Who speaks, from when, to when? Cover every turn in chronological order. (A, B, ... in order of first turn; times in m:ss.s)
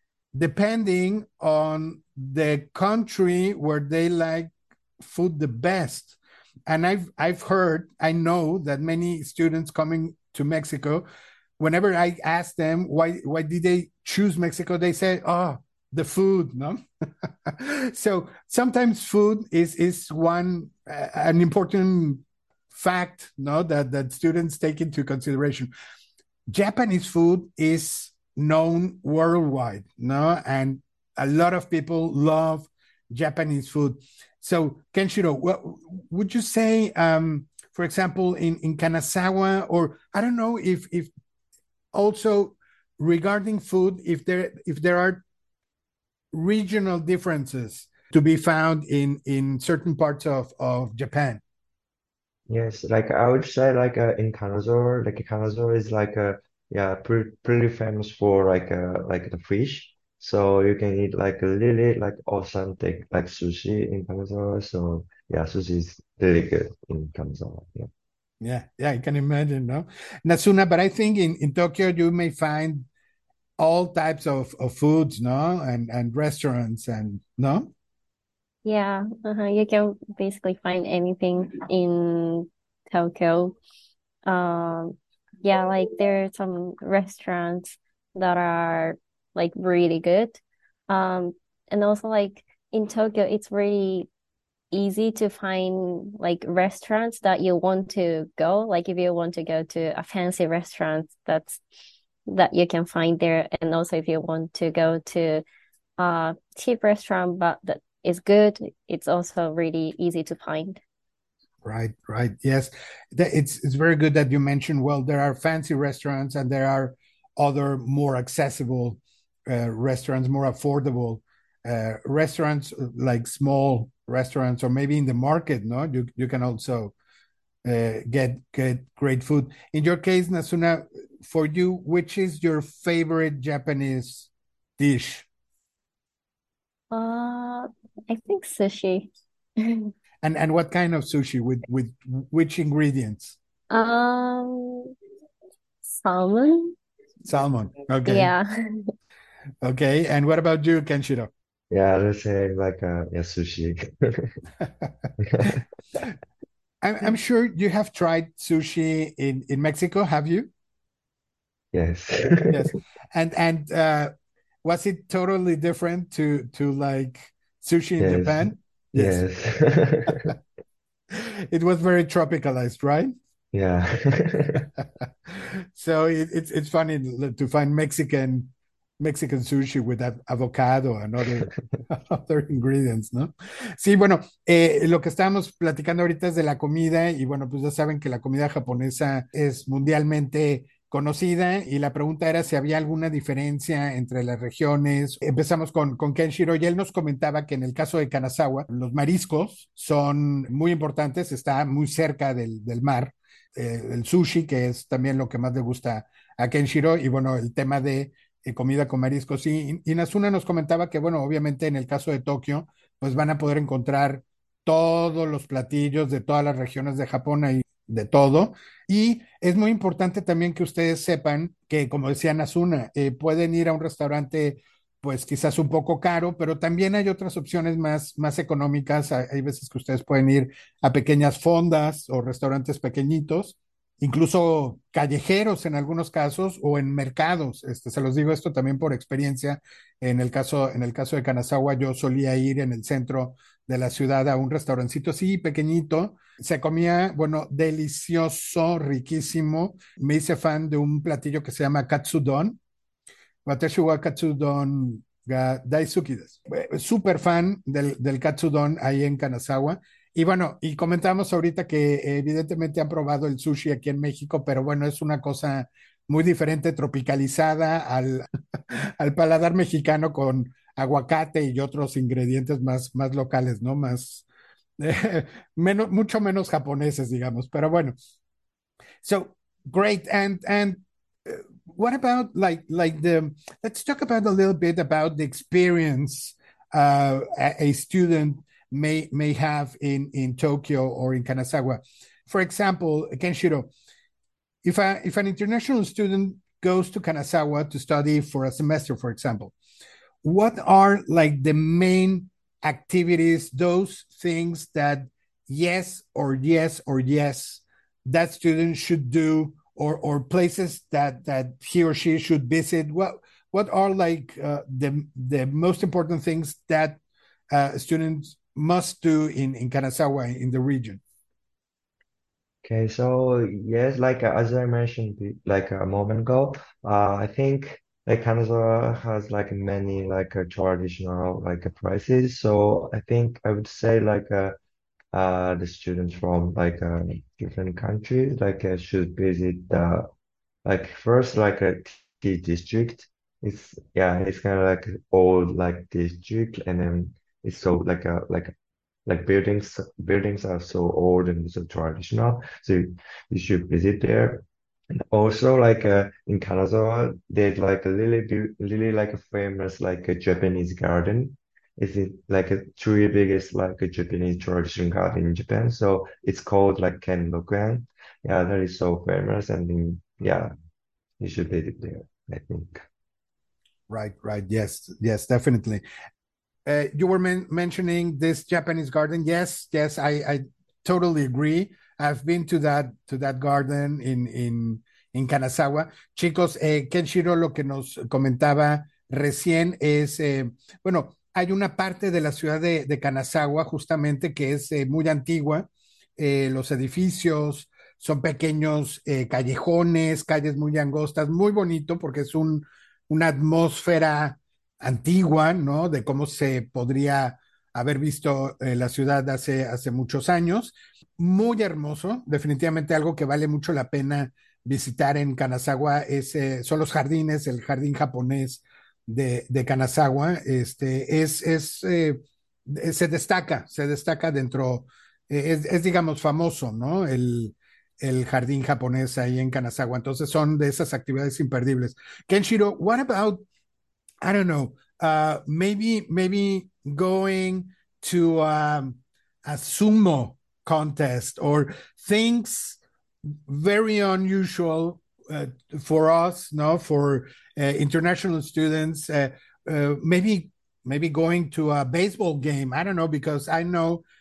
0:00.3-0:11.0 A
0:11.6-0:25.7 A
0:26.5-0:41.1 A
0:41.9-0:45.2 A
0:46.3-0:51.4 A
0:52.5-1:07.9 B
1:08.4-1:12.9 A
1:13.6-1:17.7 A
1:18.6-1:23.6 C
1:24.2-1:34.1 C
1:34.7-1:41.6 C
1:42.3-1:45.4 C
1:46.0-1:50.8 C
1:51.6-2:06.9 A
2:07.6-2:15.3 A
2:16.9-2:19.9 C
2:20.2-2:23.4 A
2:23.7-2:24.9 C
2:25.8-2:26.8 C
2:27.2-2:28.3 A
2:28.1-2:28.9 C
2:29.6-2:31.3 A
2:31.7-2:34.4 B
2:35.2-2:35.6 B
2:36.8-2:40.5 A
2:41.7-2:42.7 B
2:42.5-2:44.1 A
2:44.6-2:49.2 A
2:48.0-2:50.4 B
2:51.1-2:53.1 A
2:53.5-2:54.7 B
2:54.8-4:12.6 A
4:13.5-4:34.3 A
4:34.8-4:38.0 A
4:39.0-4:53.7 A
4:54.6-4:59.5 A
5:00.2-5:17.0 A
5:17.5-5:21.0 A
5:22.6-5:34.6 B
5:35.1-5:40.1 B
5:40.6-5:48.5 B
5:49.1-5:54.4 B
5:55.1-6:10.5 B
6:11.2-6:12.8 B
6:13.9-6:15.8 A
6:16.7-7:13.4 A
7:14.2-7:22.8 A
7:23.5-7:34.0 A